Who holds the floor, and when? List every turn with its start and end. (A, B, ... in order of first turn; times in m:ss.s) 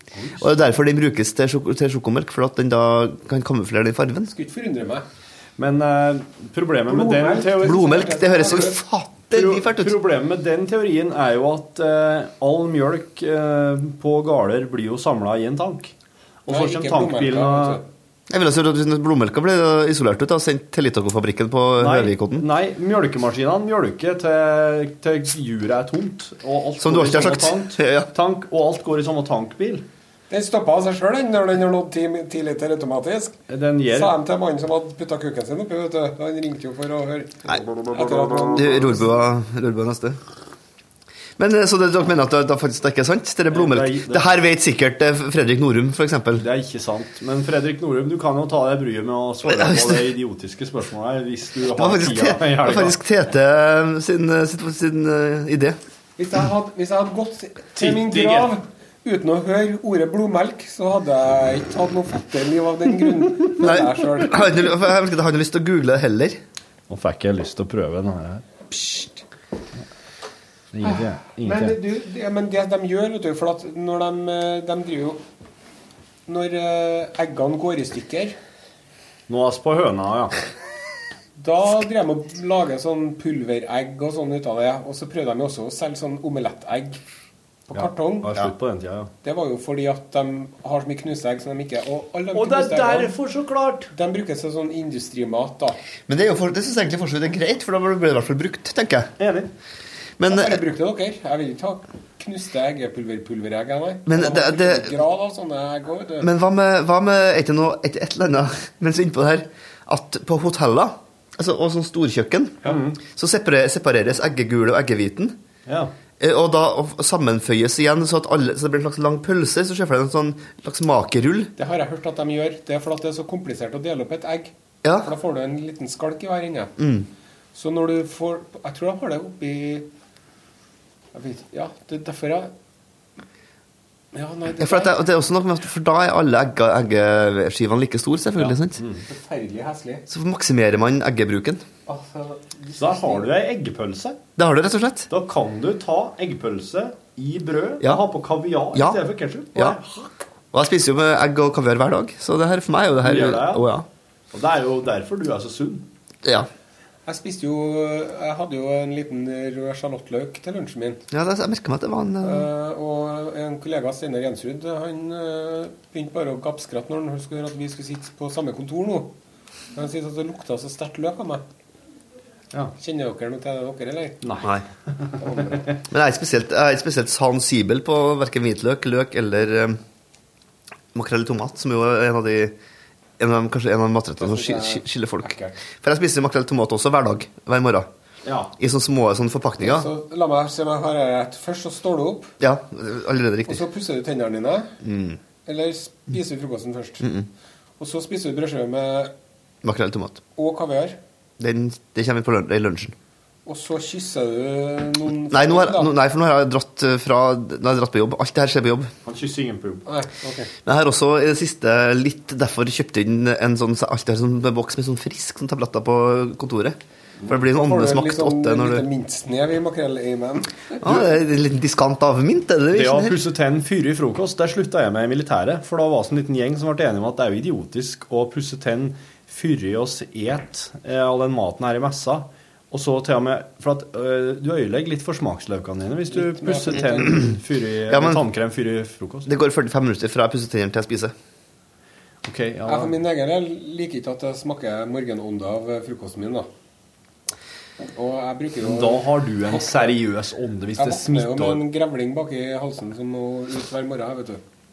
0:00.2-0:00.4 A
0:00.4-0:04.3 B
0:04.3-0:05.0 C
0:05.6-0:08.1 A
0:06.9-0:08.8 C
0:07.6-0:09.9 B
0:09.3-0:15.9 A
0:16.4-0:17.8 A
0:16.5-0:17.8 C
0:18.3-0:22.4 B
0:21.8-0:29.9 A
0:26.8-0:28.1 B
0:30.3-0:33.4 C
0:33.5-0:34.2 A
0:33.9-0:39.0 C
0:37.4-0:37.8 B
0:38.5-0:40.2 B
0:41.4-0:46.4 B
0:43.5-0:44.3 A
0:46.4-0:53.0 A
0:49.5-0:50.0 B
0:51.7-0:55.8 B
0:56.2-1:04.4 C
0:57.8-0:58.5 A
1:03.6-1:06.4 B
1:06.9-1:08.4 A
1:08.7-1:09.2 C
1:10.7-1:11.8 A
1:10.8-1:15.2 C
1:16.3-1:18.4 C
1:19.3-1:20.4 A
1:21.4-1:27.0 C
1:27.7-1:28.3 C
1:27.7-1:29.1 A
1:29.2-1:33.1 C
1:32.3-1:33.9 A
1:33.9-1:35.8 C
1:36.1-1:39.1 B
1:39.2-1:39.5 A
1:40.2-1:40.6 B
1:40.3-1:46.3 C
1:44.1-1:45.0 B
1:46.2-1:55.4 B
1:52.6-1:53.0 A
1:55.6-1:55.9 A
1:56.2-2:01.5 B
2:01.6-2:06.7 C
2:04.8-2:05.1 B
2:06.8-2:07.1 B
2:07.5-2:09.9 C
2:11.1-2:12.5 C
2:14.1-2:15.0 C
2:14.6-2:18.8 B
2:18.5-2:19.0 A
2:19.0-2:20.0 C
2:20.1-2:21.6 B
2:21.9-2:23.3 C
2:22.7-2:24.2 A
2:24.4-2:25.1 B
2:25.1-2:29.8 A
2:28.7-2:29.0 B
2:29.6-2:30.1 C
2:30.5-2:33.8 B
2:33.0-2:33.7 A
2:34.3-2:35.9 A
2:37.0-2:41.0 C
2:41.1-2:42.5 B
2:42.2-2:49.1 C
2:49.7-2:51.4 C
2:52.8-2:54.2 C
2:54.2-2:55.2 A
2:55.2-2:55.7 C
2:55.9-2:59.8 B
3:00.9-3:02.5 B
3:03.2-3:07.9 B
3:04.2-3:05.6 C
3:08.2-3:08.5 A
3:08.6-3:09.9 B
3:09.6-3:12.3 C
3:12.4-3:13.6 B
3:13.4-3:14.7 C
3:14.8-3:15.2 B
3:15.4-3:17.1 C
3:17.0-3:17.3 B
3:17.8-3:19.1 C
3:19.6-3:20.2 B
3:20.4-3:21.0 C
3:21.4-3:22.9 B
3:23.4-3:25.9 C
3:25.3-3:28.9 B
3:29.0-3:29.8 A
3:29.8-3:30.5 C
3:30.6-3:38.8 B
3:37.4-3:41.0 C
3:40.8-3:43.2 B
3:42.7-3:59.3 A
3:56.1-3:57.2 C
3:57.9-3:58.2 B
3:59.2-4:01.1 B
4:02.2-4:03.0 A
4:02.6-4:06.5 C
4:07.8-4:10.0 C
4:08.6-4:11.6 A
4:10.8-4:14.4 C